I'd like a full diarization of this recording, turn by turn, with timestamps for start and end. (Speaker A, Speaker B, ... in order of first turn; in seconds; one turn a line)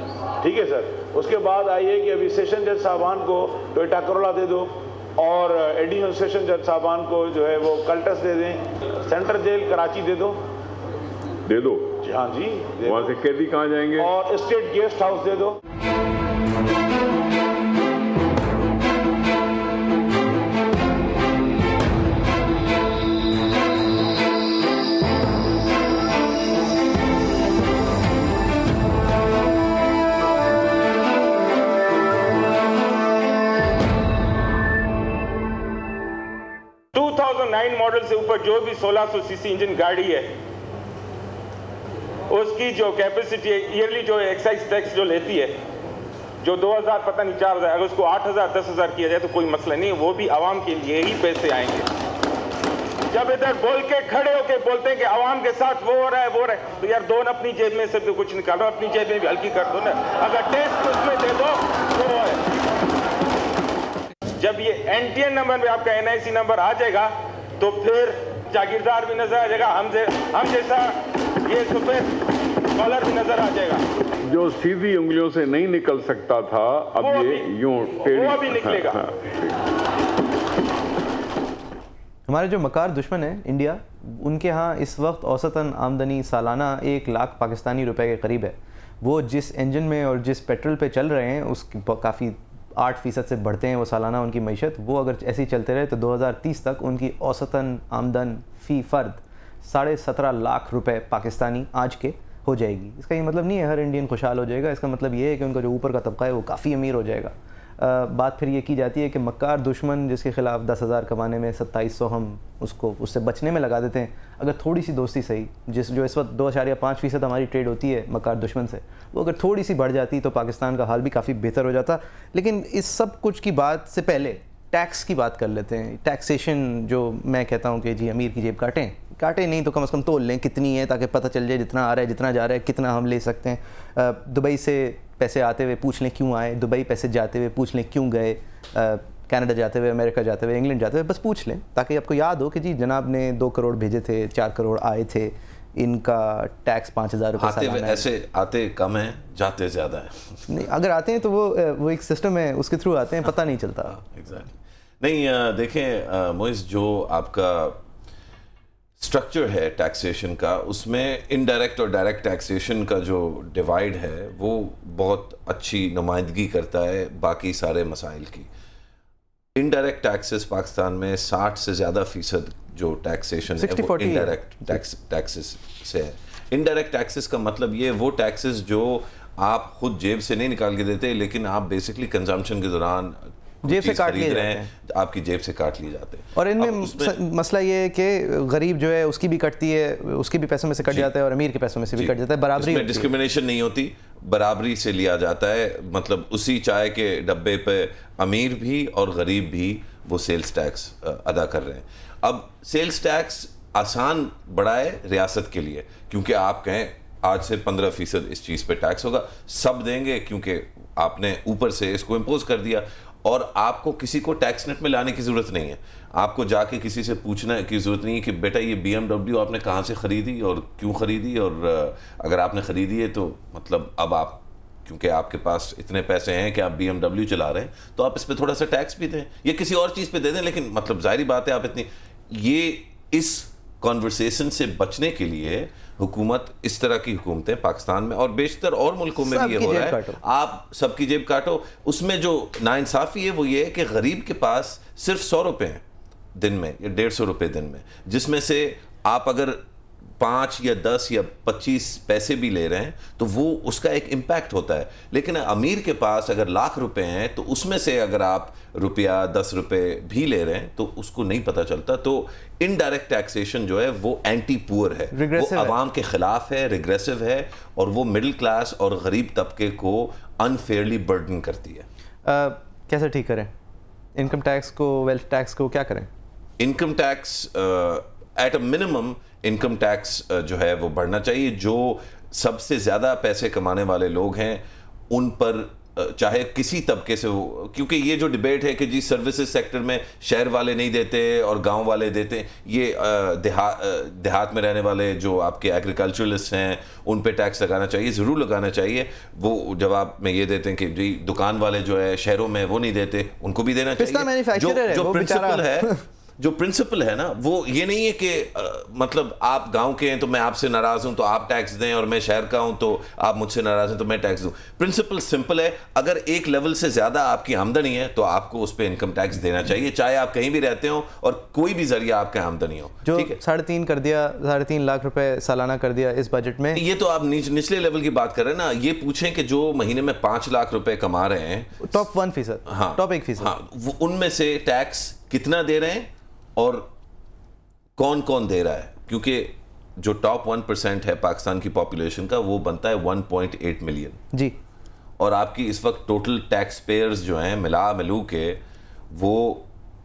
Speaker A: 0.4-10.4
Speaker B: 11.5-12.0
Speaker A: 12.0-13.2
Speaker B: 12.9-14.1
Speaker A: 14.0-15.6
Speaker C: 36.9-40.3
Speaker C: 42.3-45.6
Speaker C: 46.4-51.9
Speaker C: 53.1-62.4
Speaker C: 64.4-72.1
Speaker C: 72.8-73.8
Speaker B: 74.2-79.6
Speaker C: 77.0-77.5
Speaker C: 78.0-79.1
Speaker D: 82.3-148.1
Speaker E: 147.4-150.5
Speaker D: 150.5-154.0
Speaker E: 153.9-157.8
Speaker E: 159.0-168.5
Speaker E: 169.6-187.2
Speaker D: 173.6-174.8
Speaker D: 183.7-184.7
Speaker D: 186.4-193.1
Speaker E: 190.8-191.1
Speaker E: 192.0-245.8
Speaker D: 239.2-240.2
Speaker E: 246.4-249.6
Speaker E: 250.2-271.9
Speaker D: 265.1-265.8
Speaker D: 272.3-273.5
Speaker D: 274.2-276.1
Speaker E: 276.6-323.4
Speaker D: 304.0-306.0
Speaker D: 323.1-326.8
Speaker E: 326.7-332.1
Speaker D: 331.8-333.5
Speaker E: 332.7-336.9
Speaker E: 338.0-344.2
Speaker E: 345.2-348.6
Speaker E: 349.1-349.7